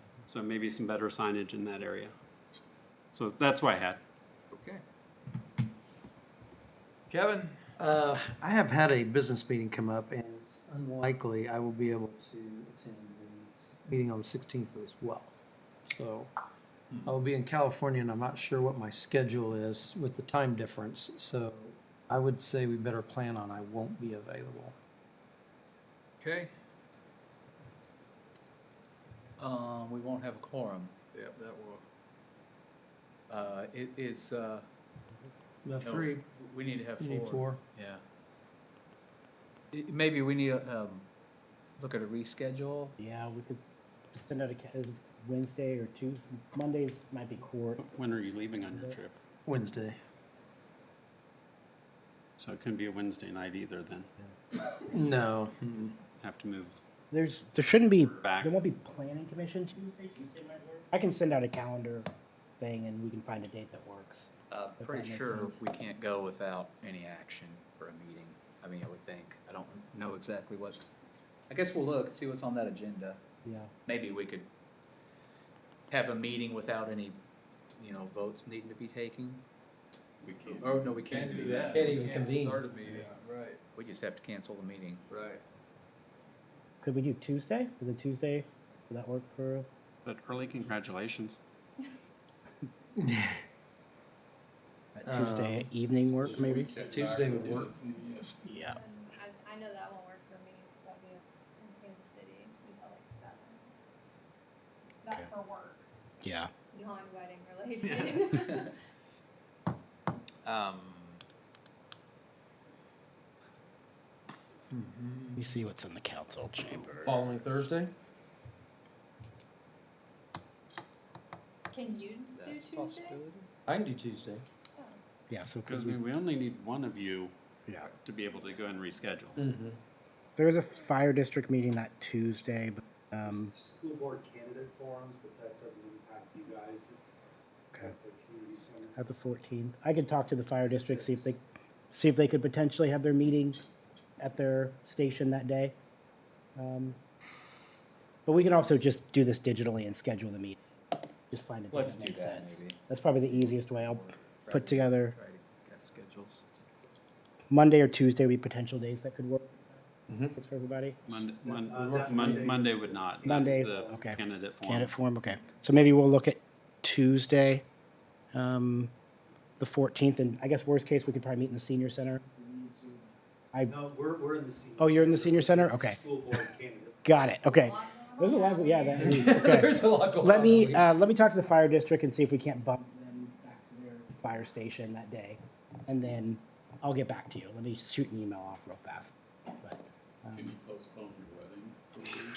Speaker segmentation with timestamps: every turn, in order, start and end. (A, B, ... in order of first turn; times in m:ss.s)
0:00.3-0:02.1 A
0:03.1-0:04.0 A
0:04.5-0:04.8 A
0:07.1-0:07.6 A
0:07.8-0:15.3 B
0:15.8-0:16.3 B
0:17.0-0:24.8 B
0:26.2-0:26.5 A
0:29.4-0:30.9 C
0:31.1-0:31.8 A
0:33.3-0:34.7 C
0:35.6-0:36.2 B
0:35.8-0:38.0 C
0:37.0-0:37.6 B
0:39.7-0:41.1 C
0:41.8-0:43.0 C
0:43.0-0:43.6 D
0:44.1-0:47.8 D
0:47.8-0:49.2 A
0:49.4-0:50.0 B
0:52.4-0:54.1 A
0:54.9-0:55.9 B
0:56.2-0:56.8 A
0:57.1-1:02.1 D
0:58.0-0:58.5 A
1:02.6-1:05.6 D
1:04.5-1:10.9 C
1:11.5-1:13.2 C
1:13.4-1:13.7 D
1:13.9-1:14.5 C
1:15.9-1:17.2 C
1:17.8-1:19.4 C
1:20.2-1:20.9 E
1:20.3-1:23.6 A
1:20.6-1:21.8 C
1:21.7-1:23.1 B
1:23.8-1:25.0 C
1:25.1-1:25.4 A
1:26.8-1:29.7 D
1:30.0-1:31.4 A
1:33.0-1:33.4 B
1:35.0-1:36.7 D
1:35.1-1:35.7 B
1:36.1-1:38.3 E
1:36.9-1:37.7 B
1:38.4-1:38.8 D
1:38.6-1:43.7 F
1:45.0-1:45.9 F
1:46.2-1:46.5 D
1:46.7-1:48.7 F
1:50.4-1:51.2 A
1:54.8-1:55.4 A
1:55.4-1:56.9 D
1:57.0-1:57.9 B
2:01.7-2:03.2 F
2:02.3-2:03.5 C
2:03.7-2:04.4 B
2:05.3-2:06.0 D
2:05.7-2:09.4 A
2:09.4-2:09.8 B
2:10.4-2:13.5 D
2:13.2-2:17.2 G
2:17.7-2:19.0 G
2:19.0-2:21.4 D
2:20.7-2:21.3 G
2:21.9-2:23.6 D
2:24.2-2:25.8 D
2:26.6-2:27.0 D
2:28.3-2:30.6 D
2:31.3-2:35.2 D
2:31.7-2:36.4 C
2:37.5-2:39.8 D
2:40.1-2:40.3 B
2:40.3-2:41.0 D
2:41.1-2:44.9 A
2:41.5-2:44.1 G
2:43.2-2:47.6 D
2:48.3-2:48.9 D
2:49.6-2:53.8 D
2:53.7-2:57.2 G
2:54.8-2:56.0 D
2:57.0-3:10.6 D
2:57.4-2:59.4 F
2:59.4-3:00.1 B
2:59.4-3:00.7 C
3:10.4-3:12.2 E